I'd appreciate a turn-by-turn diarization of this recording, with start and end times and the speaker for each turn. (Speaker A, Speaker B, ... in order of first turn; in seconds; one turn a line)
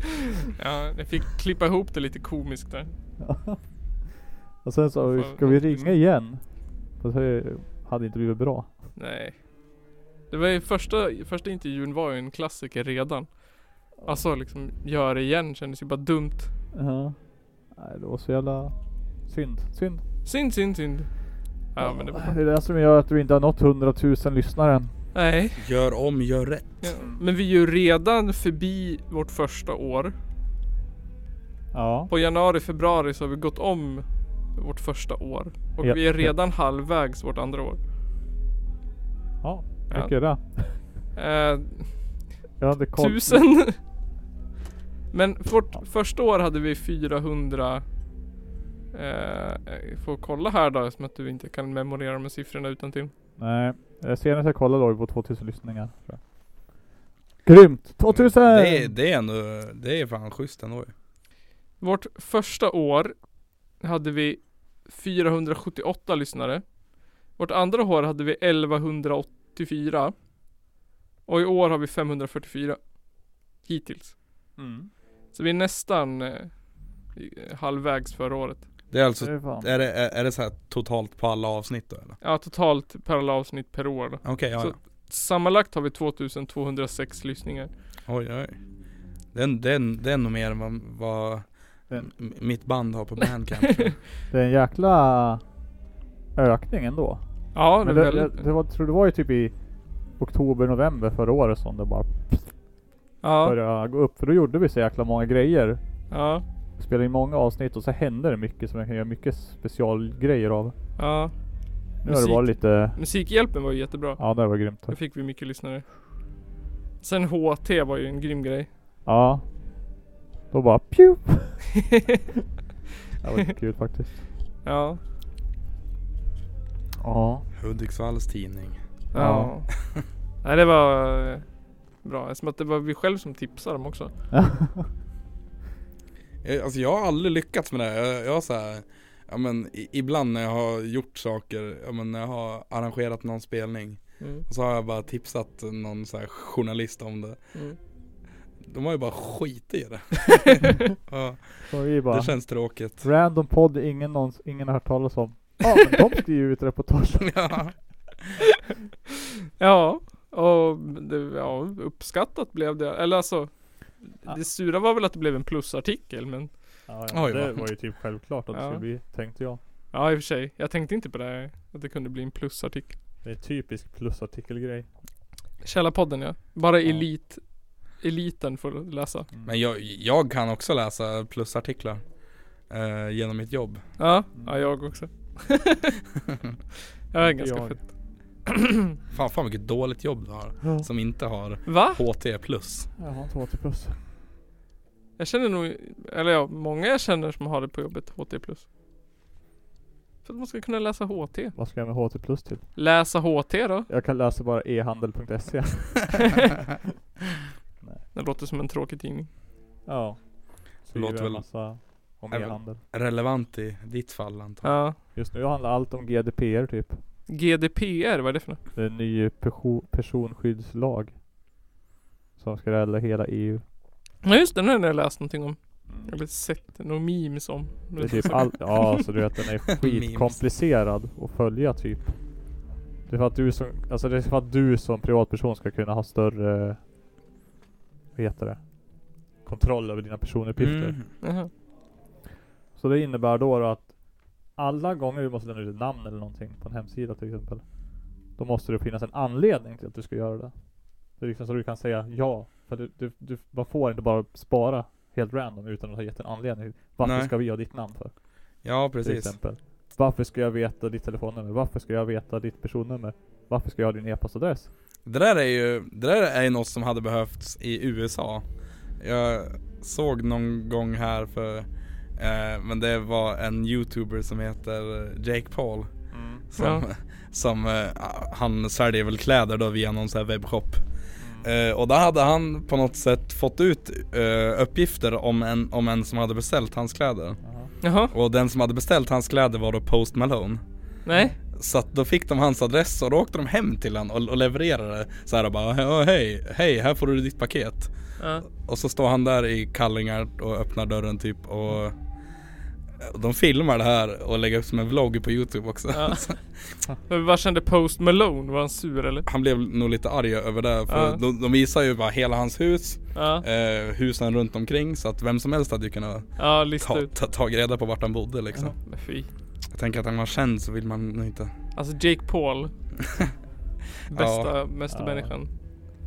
Speaker A: 0.5-2.9
Speaker B: 3.2-3.6
Speaker B: 4.6-8.8
Speaker A: 5.1-6.0
Speaker A: 9.0-16.5
Speaker B: 14.0-14.2
Speaker B: 16.7-20.0
Speaker A: 20.2-22.4
Speaker B: 21.8-24.9
Speaker A: 25.1-25.6
Speaker C: 25.6-26.9
Speaker A: 26.8-30.1
Speaker B: 31.7-32.1
Speaker A: 32.1-37.8
Speaker B: 35.8-36.3
Speaker B: 39.4-40.9
Speaker A: 39.9-42.3
Speaker B: 42.6-43.5
Speaker A: 43.0-43.8
Speaker A: 45.1-47.9
Speaker A: 48.9-53.1
Speaker B: 53.4-56.2
Speaker B: 57.5-58.9
Speaker C: 58.1-60.9
Speaker A: 61.8-63.2
Speaker A: 63.8-70.1
Speaker A: 71.3-74.2
Speaker B: 74.6-74.9
Speaker A: 75.3-78.7
Speaker C: 78.9-82.2
Speaker B: 79.2-79.7
Speaker A: 82.2-87.7
Speaker C: 84.2-84.8
Speaker C: 88.1-88.6
Speaker C: 89.3-94.0
Speaker A: 93.6-93.9
Speaker B: 94.3-95.4
Speaker B: 96.4-99.6
Speaker A: 97.5-98.4
Speaker B: 100.2-102.6
Speaker A: 103.2-103.6
Speaker B: 103.4-105.8
Speaker A: 106.1-106.4
Speaker B: 106.8-110.8
Speaker A: 111.0-111.3
Speaker A: 112.0-115.9
Speaker B: 112.0-113.0
Speaker B: 114.2-115.0
Speaker A: 117.0-118.7
Speaker B: 119.1-119.5
Speaker B: 120.5-121.6
Speaker B: 123.2-124.2
Speaker A: 124.7-125.0
Speaker B: 127.0-127.5
Speaker C: 127.6-128.8
Speaker A: 129.1-129.7
Speaker B: 129.2-129.5
Speaker A: 130.4-131.4
Speaker A: 132.0-134.1
Speaker B: 134.3-134.9
Speaker C: 136.4-147.4
Speaker A: 144.2-144.4
Speaker C: 148.6-153.1
Speaker B: 151.7-157.3
Speaker C: 157.2-157.8
Speaker A: 159.6-166.8
Speaker B: 166.9-169.6
Speaker C: 167.1-167.7
Speaker A: 168.5-168.8
Speaker A: 169.9-173.0
Speaker B: 173.2-174.9
Speaker A: 175.6-179.3
Speaker C: 179.4-182.1
Speaker C: 182.7-183.8
Speaker A: 184.0-186.0
Speaker B: 184.4-184.6
Speaker A: 187.1-187.9
Speaker B: 187.2-187.9
Speaker C: 189.1-192.9
Speaker B: 190.6-190.9
Speaker A: 191.7-192.0
Speaker B: 193.0-194.0
Speaker A: 195.2-198.7
Speaker A: 200.2-201.6
Speaker B: 201.6-202.7
Speaker A: 202.8-203.9
Speaker B: 203.9-206.3
Speaker A: 208.1-209.3
Speaker B: 209.9-212.8
Speaker C: 210.9-211.7
Speaker C: 212.3-214.8
Speaker A: 214.6-215.0
Speaker B: 215.1-217.0
Speaker A: 217.3-218.6
Speaker B: 218.8-221.2
Speaker B: 222.4-223.6
Speaker A: 224.2-228.8
Speaker B: 225.9-226.1
Speaker B: 228.0-236.8
Speaker C: 229.8-230.4
Speaker B: 238.2-241.0
Speaker C: 240.6-241.1
Speaker A: 241.2-241.5
Speaker B: 242.8-258.1
Speaker C: 257.0-257.3
Speaker C: 258.6-259.4
Speaker B: 259.0-264.7
Speaker C: 265.1-268.5
Speaker C: 269.0-280.9
Speaker B: 276.1-276.4
Speaker A: 276.6-276.9
Speaker B: 281.2-281.5
Speaker C: 281.4-287.4
Speaker B: 287.4-287.7
Speaker A: 287.8-288.1
Speaker C: 288.1-290.6
Speaker A: 291.1-291.3
Speaker C: 291.5-297.9
Speaker A: 298.2-298.4
Speaker C: 298.5-302.0
Speaker C: 303.0-306.4
Speaker A: 305.9-306.5
Speaker A: 307.1-309.3
Speaker C: 309.3-318.8
Speaker A: 310.9-311.2
Speaker A: 313.1-313.4
Speaker A: 316.4-317.1
Speaker A: 318.8-319.3
Speaker C: 319.7-321.5
Speaker A: 321.8-322.7
Speaker A: 324.1-325.5
Speaker C: 324.1-324.5
Speaker B: 324.9-325.3